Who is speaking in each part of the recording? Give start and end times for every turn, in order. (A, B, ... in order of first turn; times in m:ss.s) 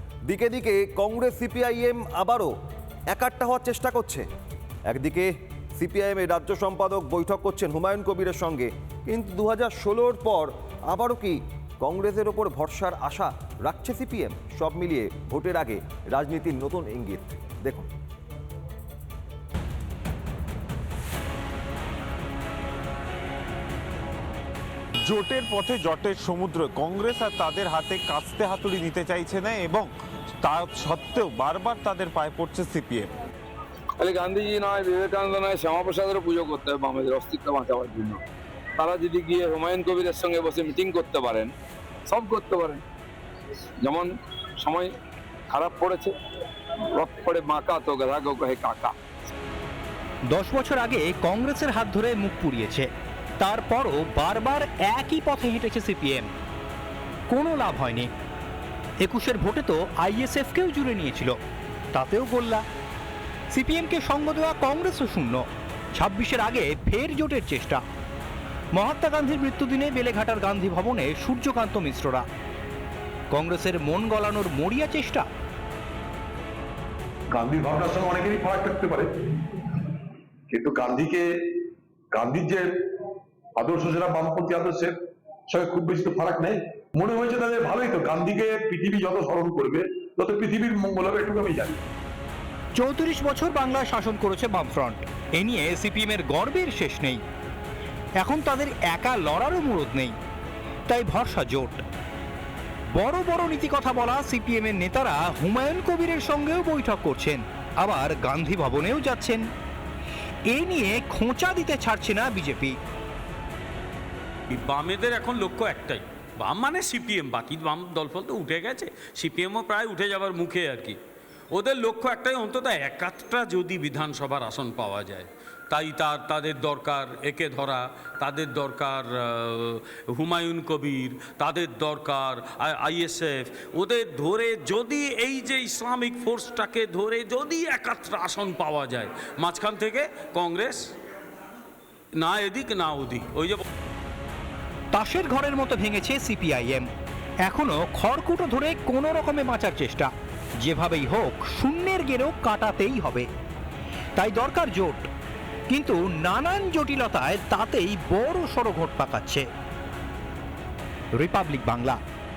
0:00.3-0:02.5 A
0:03.1-0:04.3 A
0:04.9-0:17.9 A
0:25.1-0:29.9 B
0:30.5-0:33.1 B
0:34.0-0:38.2 C
0:38.8-0:41.5 C
0:42.1-0:42.8 C
0:43.8-0:44.9 C
0:45.5-0:46.2 C
0:46.9-0:49.0 C
0:50.3-0:56.3 D
0:57.3-0:58.1 D
0:59.0-1:01.4 D
1:01.9-1:02.6 D
1:03.5-1:07.8 D
1:08.7-1:12.2 D
1:13.3-1:15.3 D
1:17.3-1:19.1 E
1:20.5-1:21.6 E
1:22.1-1:22.7 E
1:23.6-1:25.0 E
1:25.5-1:31.8 E
1:32.8-1:37.2 D
1:38.2-1:40.2 D
1:40.9-1:41.8 D
1:42.9-1:49.4 D
1:50.5-1:52.8 D
1:54.5-2:01.0 F
2:01.5-2:20.9 F
2:22.2-2:23.6 F
2:24.9-2:26.9 D
2:27.5-2:30.1 D
2:30.6-2:33.3 D
2:34.2-2:35.1 D
2:35.7-2:39.4 D
2:41.2-2:42.0 D